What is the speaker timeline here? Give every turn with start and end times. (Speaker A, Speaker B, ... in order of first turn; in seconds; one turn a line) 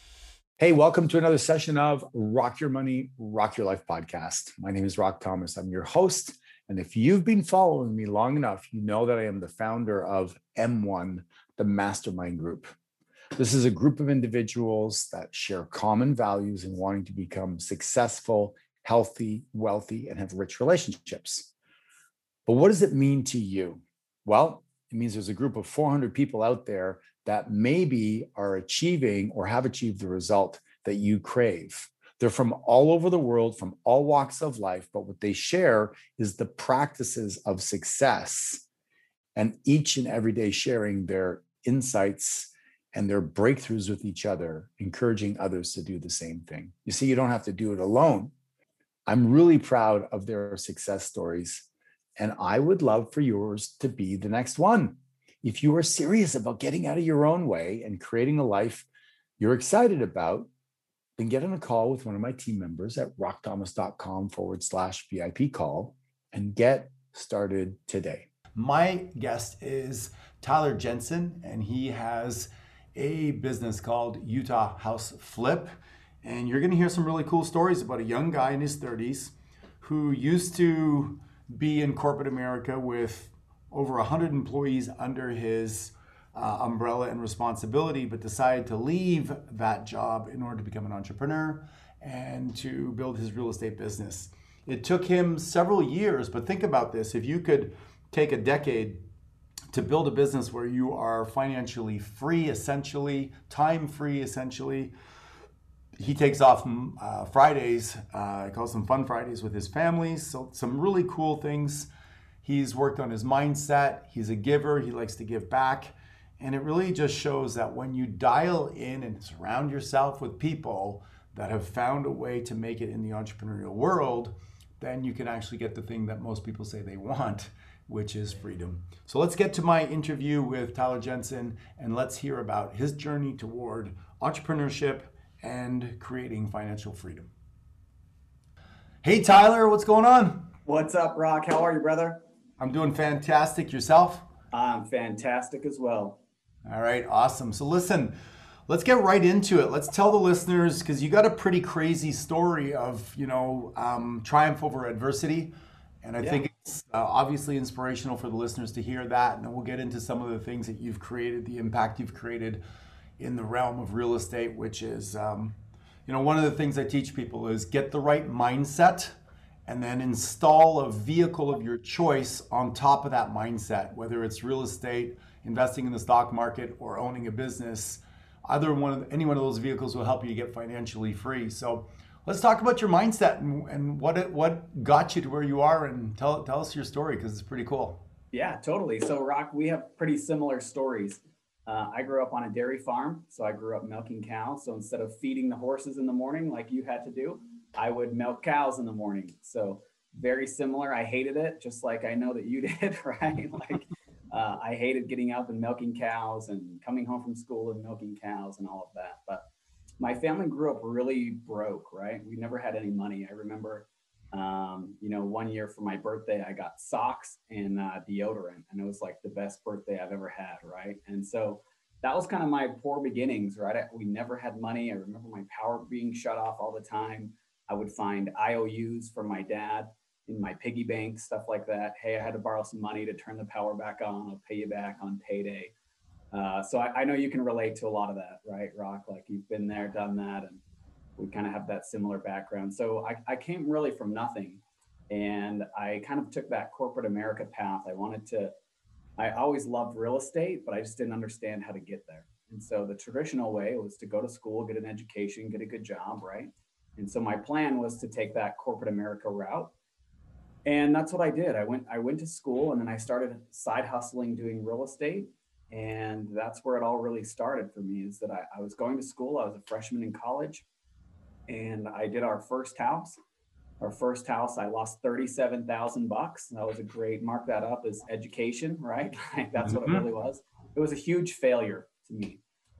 Speaker A: 0.6-12.7
Speaker A: 13.4-21.5
Speaker A: 22.5-38.6
Speaker B: 27.0-27.3
Speaker B: 30.6-30.9
Speaker A: 39.4-48.3
Speaker B: 41.4-41.6
Speaker A: 49.1-51.6
Speaker A: 52.2-58.9
Speaker A: 59.4-60.5
Speaker A: 61.2-68.2
Speaker B: 66.9-67.3
Speaker B: 68.5-75.7
Speaker B: 76.2-99.0
Speaker B: 99.7-104.9
Speaker B: 106.0-111.9
Speaker B: 112.4-137.3
Speaker B: 139.0-140.5
Speaker C: 140.7-142.2
Speaker B: 142.6-144.3
Speaker C: 144.5-146.2
Speaker B: 146.7-148.2
Speaker B: 148.7-162.6
Speaker C: 156.2-156.4
Speaker B: 163.2-165.6
Speaker B: 166.1-169.2
Speaker B: 169.7-188.0
Speaker C: 188.3-209.4
Speaker C: 210.0-235.7
Speaker C: 236.3-240.6
Speaker C: 241.2-248.5
Speaker C: 249.2-259.7
Speaker C: 260.7-270.7
Speaker C: 271.5-273.2
Speaker C: 273.8-282.4
Speaker B: 279.6-280.0